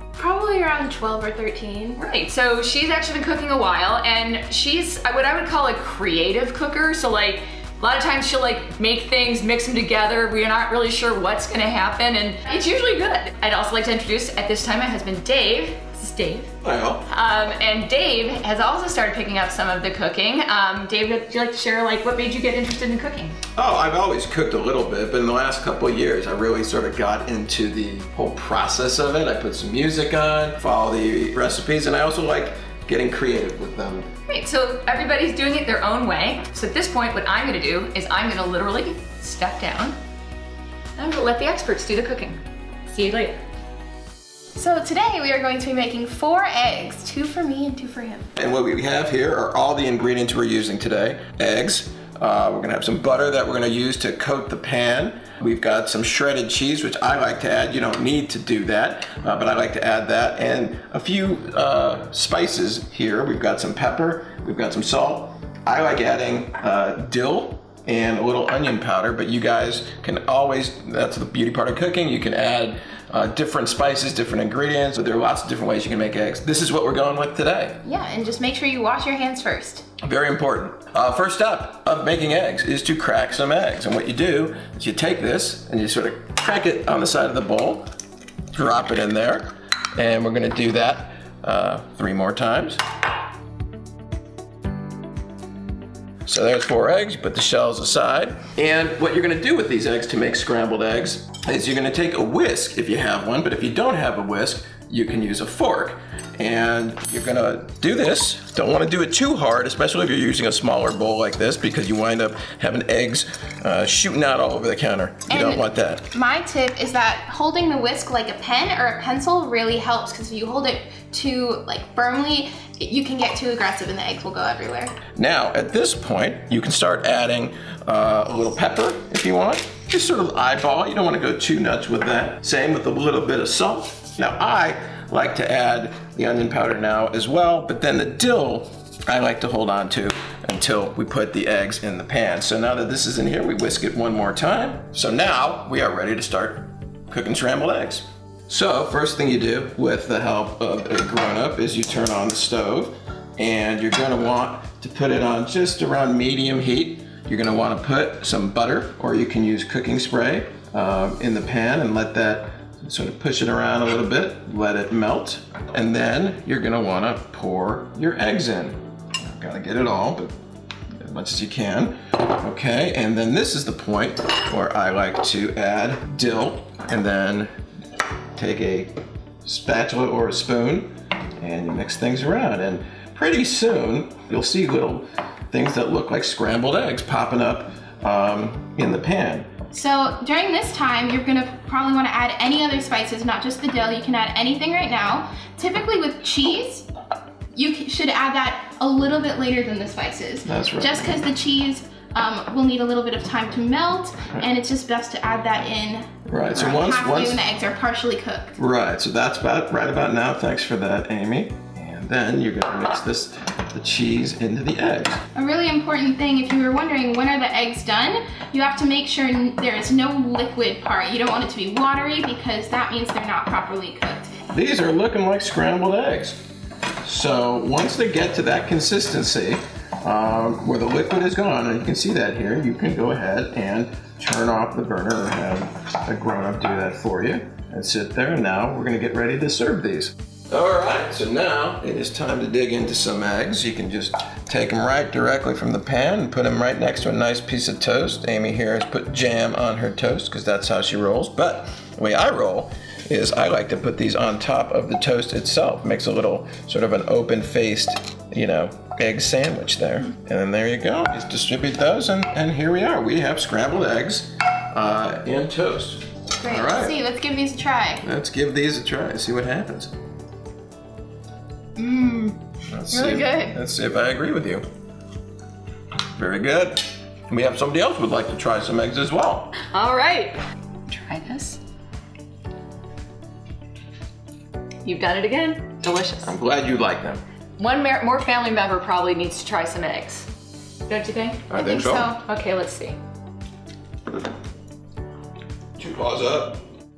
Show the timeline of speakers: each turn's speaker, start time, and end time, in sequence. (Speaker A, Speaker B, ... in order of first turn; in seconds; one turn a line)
Speaker A: 0.2-2.0
Speaker B: 2.0-16.5
Speaker C: 16.6-17.1
Speaker B: 17.1-23.4
Speaker C: 23.6-34.1
Speaker B: 34.3-40.0
Speaker B: 41.0-43.4
Speaker A: 44.5-48.3
Speaker C: 48.4-77.8
Speaker A: 77.8-79.9
Speaker C: 80.0-87.9
Speaker C: 88.5-92.8
Speaker C: 96.3-116.1
Speaker A: 115.3-125.0
Speaker C: 125.2-170.3
Speaker C: 171.0-177.5
Speaker C: 178.4-180.9
Speaker C: 181.4-189.5
Speaker A: 189.7-196.9
Speaker A: 197.5-208.6
Speaker C: 200.4-201.3
Speaker C: 206.3-207.4
Speaker C: 208.6-215.2
Speaker A: 215.3-224.3
Speaker C: 224.5-226.4
Speaker C: 227.0-267.0
Speaker A: 266.4-268.1
Speaker C: 268.0-269.9
Speaker A: 271.8-272.4
Speaker C: 272.7-274.6
Speaker A: 272.9-273.6
Speaker C: 276.2-279.6
Speaker B: 279.6-280.4
Speaker B: 280.9-281.6
Speaker B: 284.8-286.3
Speaker C: 286.2-287.2
Speaker B: 287.6-290.3
Speaker B: 290.9-293.0
Speaker C: 291.5-292.1
Speaker A: 291.6-292.2
Speaker C: 295.8-296.6